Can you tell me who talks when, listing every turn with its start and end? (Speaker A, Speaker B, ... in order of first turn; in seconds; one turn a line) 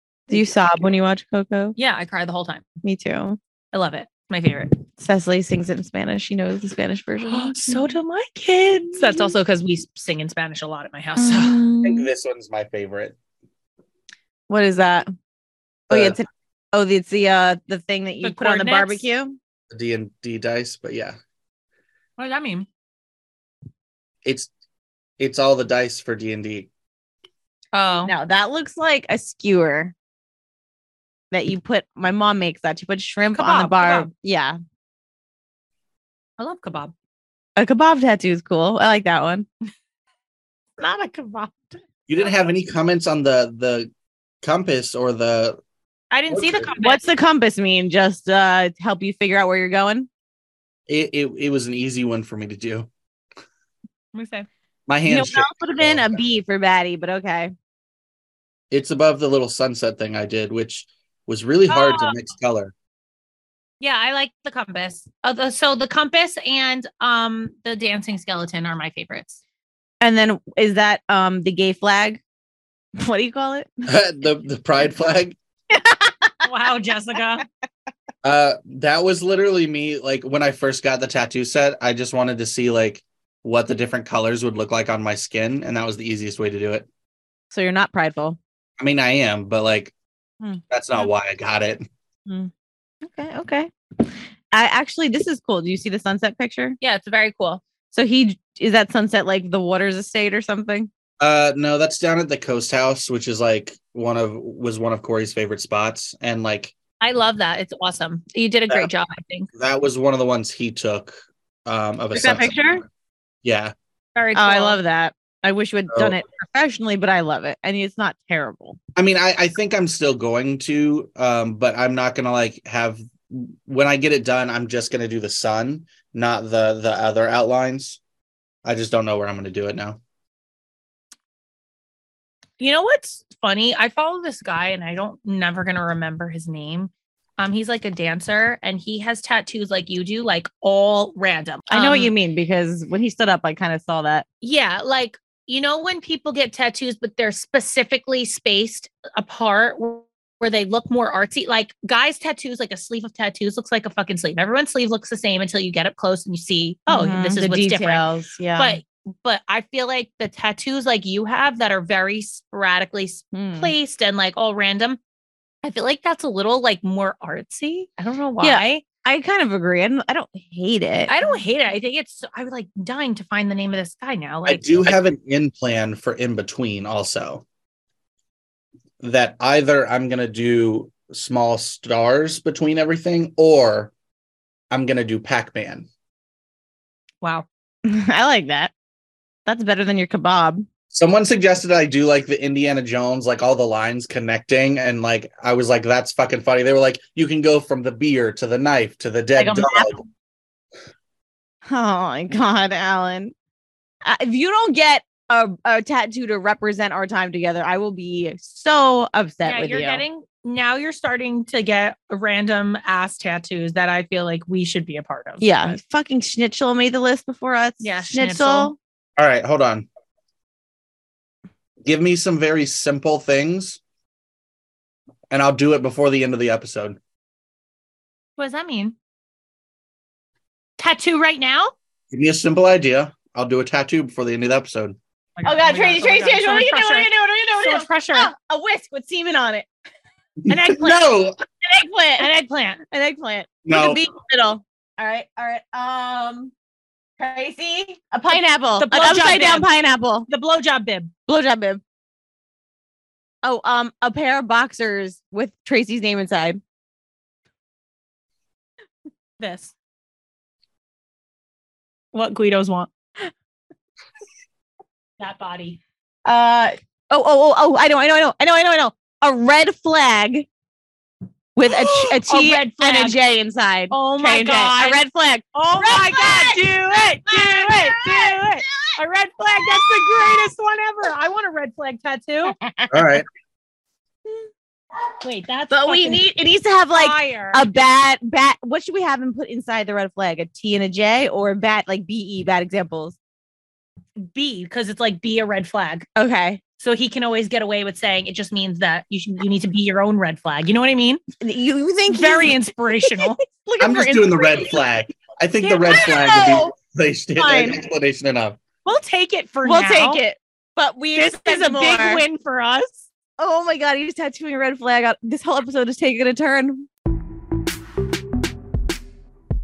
Speaker A: 0.3-1.8
Speaker B: 1.8-2.6
Speaker A: 2.8-3.4
Speaker B: 3.7-4.8
Speaker A: 5.0-8.0
Speaker B: 7.3-11.6
Speaker A: 8.9-9.3
Speaker A: 11.2-12.1
Speaker C: 11.8-13.2
Speaker A: 14.5-15.1
Speaker A: 15.9-19.4
Speaker C: 15.9-16.2
Speaker B: 18.2-19.1
Speaker C: 19.7-21.2
Speaker B: 22.2-22.7
Speaker C: 24.2-24.5
Speaker C: 25.2-26.7
Speaker B: 27.7-28.1
Speaker A: 28.1-29.9
Speaker A: 31.3-34.6
Speaker B: 33.3-34.1
Speaker B: 36.4-36.9
Speaker A: 37.6-39.5
Speaker B: 40.8-41.8
Speaker C: 42.1-43.9
Speaker C: 44.4-45.6
Speaker B: 46.1-47.0
Speaker C: 46.3-46.7
Speaker A: 46.8-50.1
Speaker C: 50.9-52.9
Speaker B: 54.1-54.5
Speaker C: 54.9-56.2
Speaker A: 55.1-57.5
Speaker C: 58.7-62.7
Speaker B: 61.7-62.1
Speaker B: 63.8-69.4
Speaker A: 70.0-72.2
Speaker A: 73.0-73.8
Speaker C: 73.9-75.4
Speaker A: 75.7-76.3
Speaker B: 76.4-77.5
Speaker C: 78.2-86.9
Speaker A: 87.5-88.4
Speaker C: 88.8-89.9
Speaker C: 90.7-91.8
Speaker A: 93.0-96.8
Speaker B: 96.8-97.6
Speaker A: 97.9-100.9
Speaker C: 101.2-106.8
Speaker B: 107.0-109.5
Speaker C: 109.6-111.2
Speaker C: 111.7-112.7
Speaker A: 112.1-112.8
Speaker C: 113.4-113.7
Speaker B: 114.2-114.8
Speaker A: 114.3-118.8
Speaker C: 119.0-128.0
Speaker C: 128.6-130.0
Speaker B: 132.6-142.1
Speaker A: 141.7-144.3
Speaker B: 144.4-165.0
Speaker A: 156.9-158.8
Speaker A: 163.3-163.7
Speaker B: 165.6-168.8
Speaker A: 168.4-171.2
Speaker B: 171.1-174.9
Speaker C: 174.5-177.4
Speaker C: 179.0-183.9
Speaker C: 184.7-185.9
Speaker A: 187.8-188.7
Speaker A: 189.5-190.7
Speaker C: 190.9-200.0
Speaker A: 199.4-199.9
Speaker A: 201.7-203.3
Speaker A: 204.1-210.0
Speaker B: 209.4-215.8
Speaker A: 215.4-218.8
Speaker B: 217.8-218.7
Speaker C: 219.2-219.9
Speaker C: 221.8-223.8
Speaker C: 225.3-227.0
Speaker B: 228.4-229.0
Speaker B: 230.8-231.7
Speaker C: 232.1-235.0
Speaker B: 235.4-238.3
Speaker A: 235.4-239.7
Speaker C: 240.4-241.4
Speaker B: 240.5-241.0
Speaker A: 241.6-242.3
Speaker B: 242.2-242.8
Speaker A: 242.9-246.5
Speaker C: 243.7-244.0
Speaker A: 247.2-250.3
Speaker B: 248.8-249.7
Speaker B: 250.3-251.1
Speaker A: 251.3-251.8
Speaker A: 253.4-256.6
Speaker B: 259.4-259.7
Speaker B: 262.1-262.9
Speaker B: 265.2-265.8
Speaker A: 266.2-270.5
Speaker A: 271.6-279.0
Speaker B: 271.7-273.2
Speaker B: 273.9-282.6
Speaker A: 279.6-280.5
Speaker A: 282.5-283.2
Speaker C: 282.9-283.3
Speaker B: 285.2-286.2
Speaker A: 285.7-293.2
Speaker B: 286.9-287.6
Speaker B: 294.2-296.1
Speaker A: 296.2-296.6
Speaker B: 296.8-301.2
Speaker A: 301.4-304.8
Speaker B: 302.1-303.4
Speaker C: 303.8-308.6
Speaker A: 305.8-306.7
Speaker A: 307.4-307.8
Speaker B: 308.9-310.2
Speaker A: 309.6-312.2
Speaker B: 311.1-313.1
Speaker A: 313.4-316.9